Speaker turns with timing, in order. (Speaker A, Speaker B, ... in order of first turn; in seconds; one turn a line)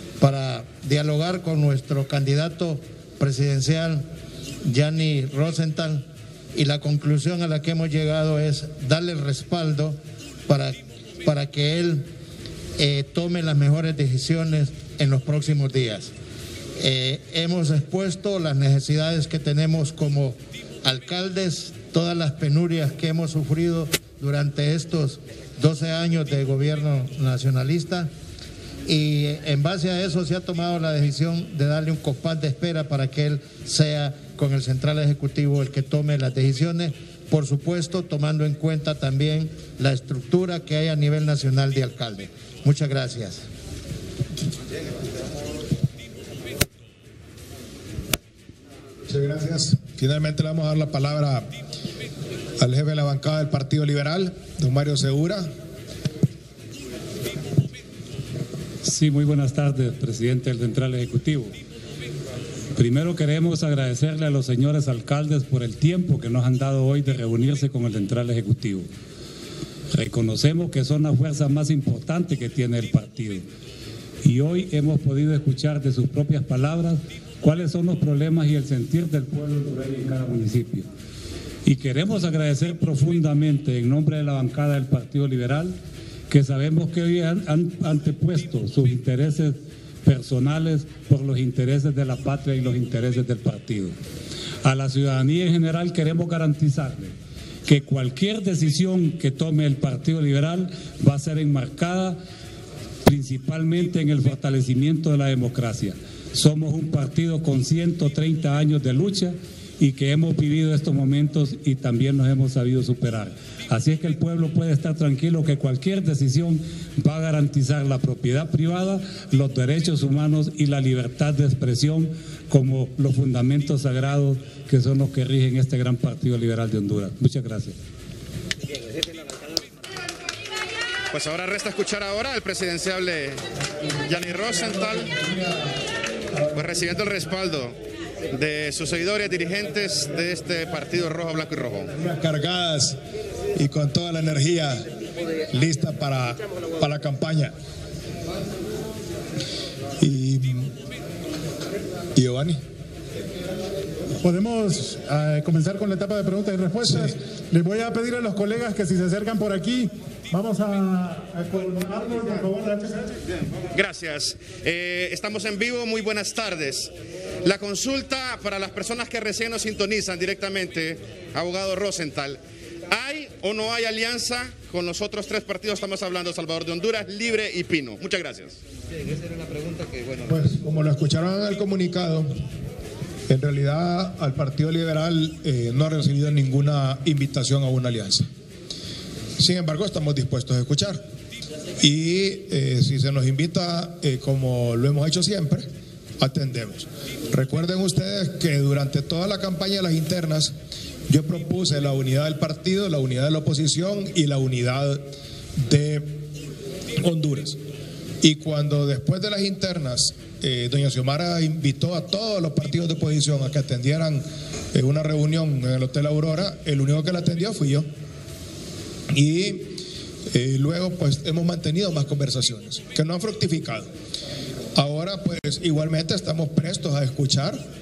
Speaker A: 0.2-4.1
Speaker A: 4.6-12.1
Speaker A: 12.8-16.1
Speaker A: 16.8-28.1
Speaker A: 28.9-43.4
Speaker B: 49.1-51.5
Speaker B: 52.6-55.5
Speaker C: 58.8-61.6
Speaker C: 62.8-68.9
Speaker C: 69.9-73.4
Speaker C: 74.2-80.9
Speaker C: 81.7-85.8
Speaker C: 86.3-94.0
Speaker C: 94.6-97.1
Speaker C: 97.7-102.2
Speaker C: 103.0-127.8
Speaker D: 131.1-133.4
Speaker D: 134.0-135.2
Speaker D: 136.5-137.8
Speaker D: 138.3-141.9
Speaker B: 142.0-143.0
Speaker B: 143.6-144.8
Speaker B: 145.5-147.5
Speaker B: 150.0-150.7
Speaker B: 152.2-152.6
Speaker E: 154.2-163.1
Speaker B: 156.8-157.1
Speaker D: 163.7-166.9
Speaker D: 167.4-178.6
Speaker B: 180.3-182.3
Speaker B: 183.3-188.2
Speaker B: 189.4-191.0
Speaker B: 191.8-195.7
Speaker B: 196.2-200.5
Speaker B: 201.1-205.0
Speaker B: 205.7-206.2
Speaker B: 207.0-207.6
Speaker B: 208.2-217.9
Speaker B: 219.1-219.8
Speaker B: 220.3-223.9
Speaker B: 224.8-227.6